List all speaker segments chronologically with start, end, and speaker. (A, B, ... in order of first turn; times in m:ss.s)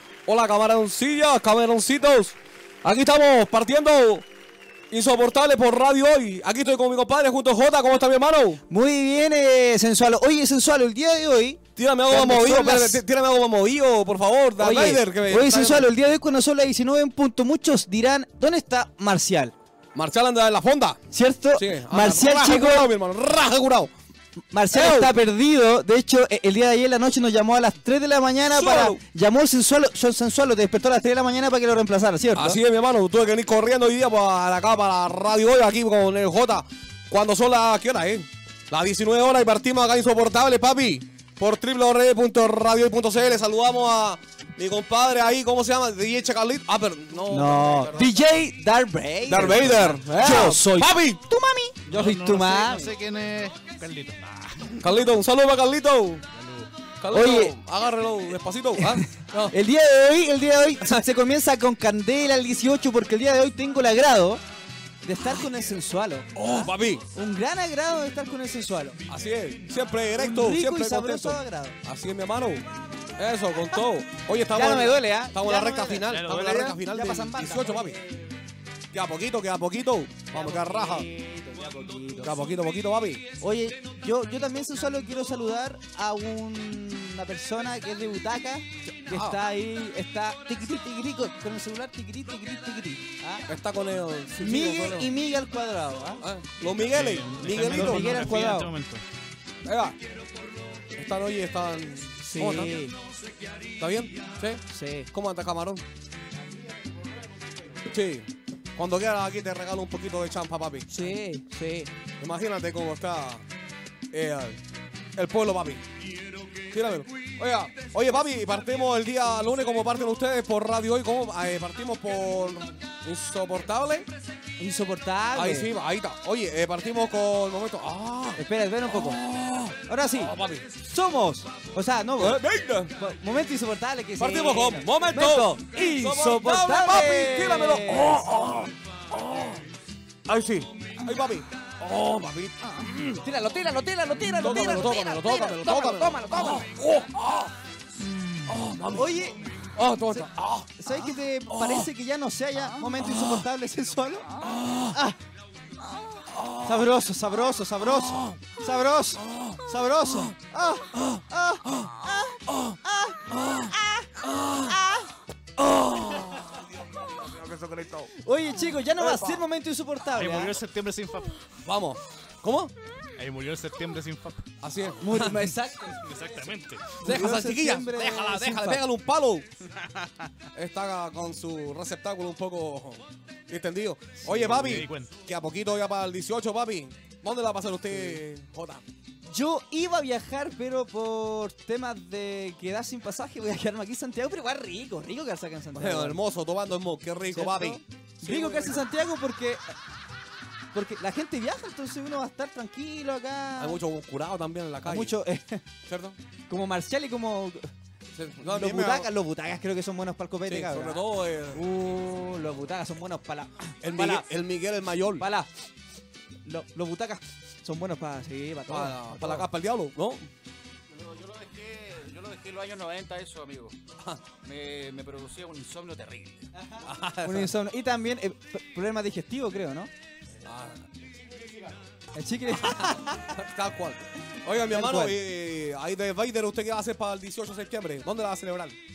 0:00.2-0:04.2 A
0:04.9-0:08.6 A
0:08.7-0:13.0 B
0:11.8-0:15.9 A
0:14.6-0:19.5 B
0:19.9-0:21.0 A
0:21.1-0:22.9 B
0:21.5-0:23.9 A
0:24.5-0:32.6 B
0:24.7-0:25.1 A
0:28.5-0:29.0 A
0:32.3-0:48.2 A
0:47.3-0:53.0 B
0:49.2-0:51.2 A
0:51.9-0:54.8 C
0:54.8-0:56.2 A
0:56.3-0:56.7 C
0:57.0-0:59.6 A
0:57.1-0:57.5 B
0:58.8-1:04.4 B
1:00.8-1:01.0 A
1:05.0-1:06.3 B
1:06.3-1:07.0 A
1:07.1-1:09.0 B
1:09.1-1:18.0 A
1:10.2-1:11.8 B
1:14.5-1:18.3 B
1:16.1-1:16.8 C
1:18.9-1:21.1 A
1:20.3-1:22.4 B
1:22.2-1:23.2 A
1:23.4-1:33.4 B
1:29.1-1:29.4 A
1:33.5-1:35.1 A
1:34.3-1:36.2 B
1:36.2-1:38.4 A
1:36.7-1:39.0 C
1:37.6-1:38.7 B
1:39.6-1:40.0 A
1:40.9-1:42.7 A
1:42.2-1:43.0 B
1:43.7-1:45.8 A
1:44.7-1:45.1 B
1:47.8-1:51.1 A
1:50.9-1:51.9 B
1:52.2-1:53.4 A
1:54.1-1:54.6 A
1:55.1-1:55.8 A
1:56.6-2:04.1 A
2:04.6-2:05.7 B
2:05.3-2:10.6 A
2:08.4-2:09.2 B
2:09.8-2:12.4 B
2:12.2-2:12.9 A
2:13.0-2:18.3 B
2:14.2-2:19.6 A
2:20.2-2:23.2 A
2:22.6-2:26.6 B
2:24.2-2:27.5 A
2:28.5-2:31.9 A
2:28.9-2:29.4 B
2:30.8-2:34.3 B
2:32.9-2:33.4 A
2:34.3-2:35.0 A
2:34.9-2:35.2 B
2:36.3-2:36.9 A
2:36.6-2:45.1 B
2:37.8-2:38.6 A
2:39.2-2:40.3 A
2:40.9-2:41.9 A
2:42.5-2:42.8 A
2:43.3-2:44.8 A
2:45.6-2:48.1 A
2:46.1-2:46.6 B
2:48.2-2:50.6 B
2:49.0-2:49.4 A
2:50.1-2:51.4 C
2:51.6-2:52.7 A
2:53.2-2:54.4 C
2:54.6-2:55.5 A
2:55.0-2:56.2 B
2:55.2-2:57.0 C
2:57.0-2:58.8 B
2:57.0-2:59.4 A
3:00.5-3:08.8 A
3:04.2-3:05.1 C
3:09.3-3:16.2 B
3:15.7-3:18.9 A
3:17.3-3:19.8 B
3:20.7-3:23.8 B
3:23.6-3:25.2 A
3:24.8-3:25.6 B
3:25.8-3:26.2 A
3:26.5-3:27.7 B
3:28.1-3:29.1 A
3:28.4-3:34.3 B
3:30.5-3:31.6 A
3:33.8-3:35.3 A
3:35.2-3:35.5 B
3:36.4-3:39.5 B
3:38.7-3:40.2 A
3:40.9-3:43.8 D
3:44.0-3:44.2 A
3:44.4-3:46.5 D
3:46.5-3:49.9 B
3:46.8-3:47.5 A
3:50.4-3:50.9 A
3:51.4-3:51.7 D
3:52.1-3:53.3 B
3:52.6-3:58.8 A
3:54.6-3:55.2 B